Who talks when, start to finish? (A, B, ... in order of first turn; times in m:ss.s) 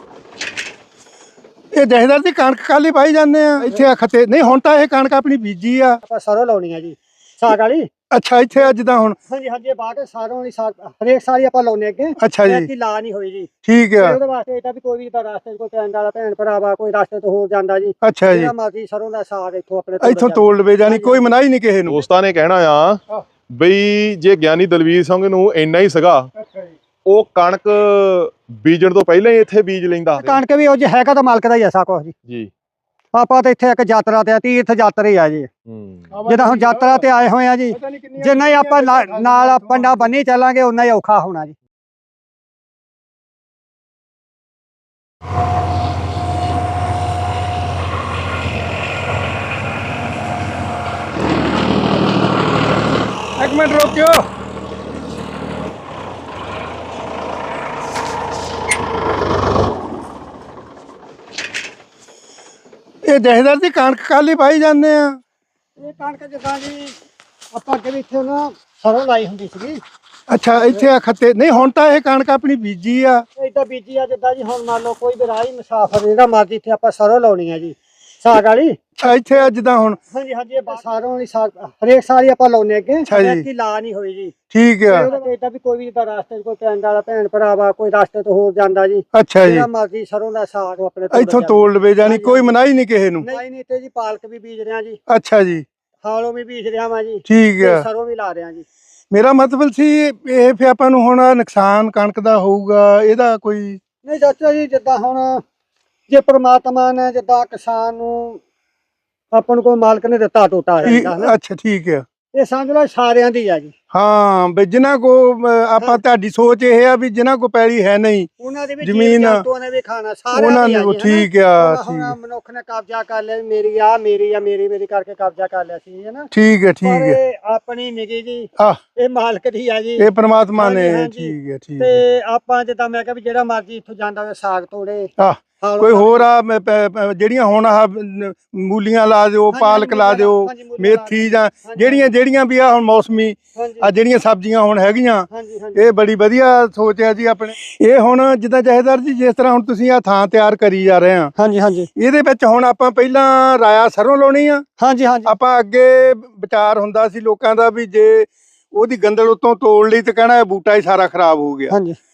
0:01.7-0:06.0 A
0:06.0-0:07.9 B
0:08.1-0:09.2 A
0:09.3-0:21.3 B
0:12.2-0:12.7 A
0:13.6-0:14.2 A
0:18.0-0:18.5 A
0:20.0-0:22.0 A
0:21.9-0:23.0 C
0:23.5-0:26.3 C
0:26.4-0:26.7 A
0:27.0-0:30.4 C
0:30.2-0:32.1 B
0:33.1-0:35.5 B
0:35.7-0:36.1 C
0:36.1-0:37.0 A
0:36.3-0:41.5 B
0:37.7-0:40.1 A
0:53.4-0:54.2 A
1:03.0-1:05.2 A
1:05.8-1:07.0 B
1:07.5-1:09.8 B
1:10.3-1:13.2 A
1:13.4-1:19.5 B
1:19.0-1:20.0 A
1:20.1-1:24.3 B
1:23.1-1:23.4 A
1:24.5-1:25.1 A
1:24.9-1:32.5 B
1:29.1-1:29.7 A
1:31.1-1:33.2 A
1:33.2-1:35.0 B
1:35.1-1:35.6 A
1:36.0-1:38.6 B
1:37.2-1:37.8 A
1:39.1-1:43.8 A
1:44.0-1:45.4 B
1:46.1-1:48.4 B
1:49.3-1:51.3 B
1:50.8-1:52.0 A
1:52.3-1:53.7 B
1:53.9-1:58.3 A
1:58.4-2:06.3 B
1:58.8-1:59.4 A
2:00.3-2:02.1 A
2:06.3-2:07.2 A
2:06.8-2:16.2 B
2:10.0-2:12.0 A
2:15.2-2:31.3 A
2:19.5-2:22.1 B
2:23.5-2:23.9 B
2:25.3-2:25.8 B
2:31.4-2:31.9 B
2:32.0-2:34.6 A
2:34.8-2:35.3 B
2:35.2-2:41.7 A
2:41.7-2:42.0 B